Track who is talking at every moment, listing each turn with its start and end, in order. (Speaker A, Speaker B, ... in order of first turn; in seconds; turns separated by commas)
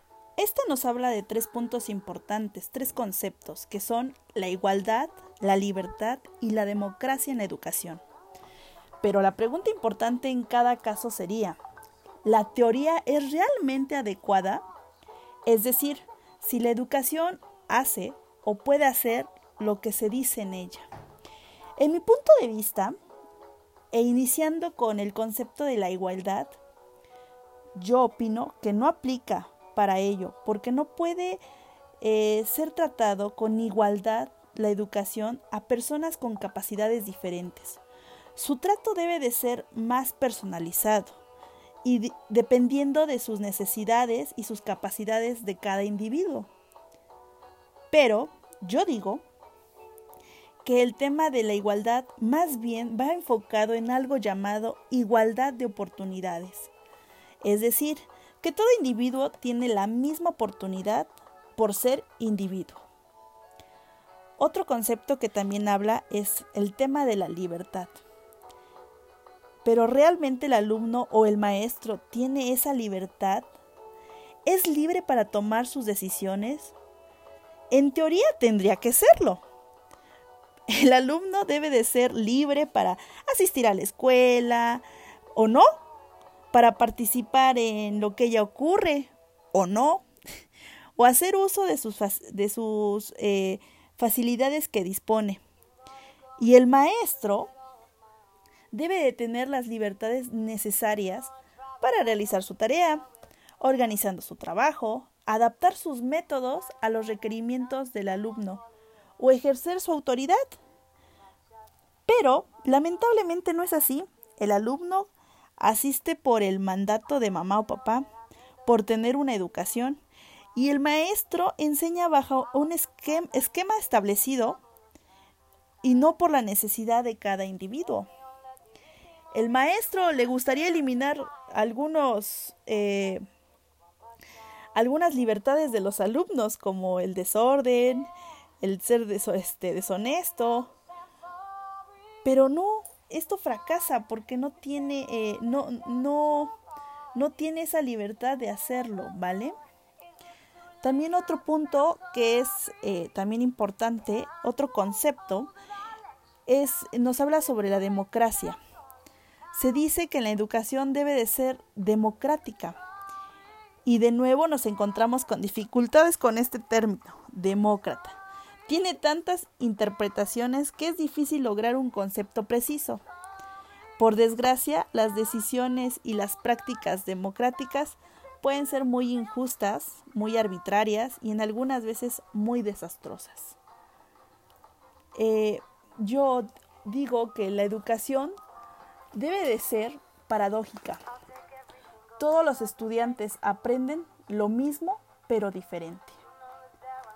Speaker A: 0.4-8.0, Speaker A: 9.0-11.6, Speaker A: 12.2-14.6, Speaker A: 15.4-20.9, Speaker A: 21.8-22.9, Speaker A: 23.9-26.5, Speaker A: 27.8-31.4, Speaker A: 32.0-37.8, Speaker A: 38.4-41.2, Speaker A: 41.8-46.5, Speaker A: 47.9-49.2, Speaker A: 50.6-56.7, Speaker A: 57.4-62.8, Speaker A: 64.4-68.0, Speaker A: 69.6-73.5, Speaker A: 74.5-76.7, Speaker A: 77.7-79.4, Speaker A: 80.7-84.8, Speaker A: 85.3-85.7, Speaker A: 86.5-90.0, Speaker A: 91.0-95.4, Speaker A: 96.4-97.5, Speaker A: 98.7-103.0, Speaker A: 103.6-108.6, Speaker A: 109.2-110.5, Speaker A: 112.1-118.0, Speaker A: 118.7-120.0, Speaker A: 120.5-124.6, Speaker A: 125.8-128.1, Speaker A: 129.3-133.2, Speaker A: 134.7-138.1, Speaker A: 138.6-140.7, Speaker A: 142.2-146.6, Speaker A: 147.1-149.5, Speaker A: 150.8-155.5, Speaker A: 156.5-158.6, Speaker A: 159.5-162.8, Speaker A: 163.8-173.0, Speaker A: 174.0-183.6, Speaker A: 185.2-188.3, Speaker A: 189.1-191.0, Speaker A: 192.2-196.2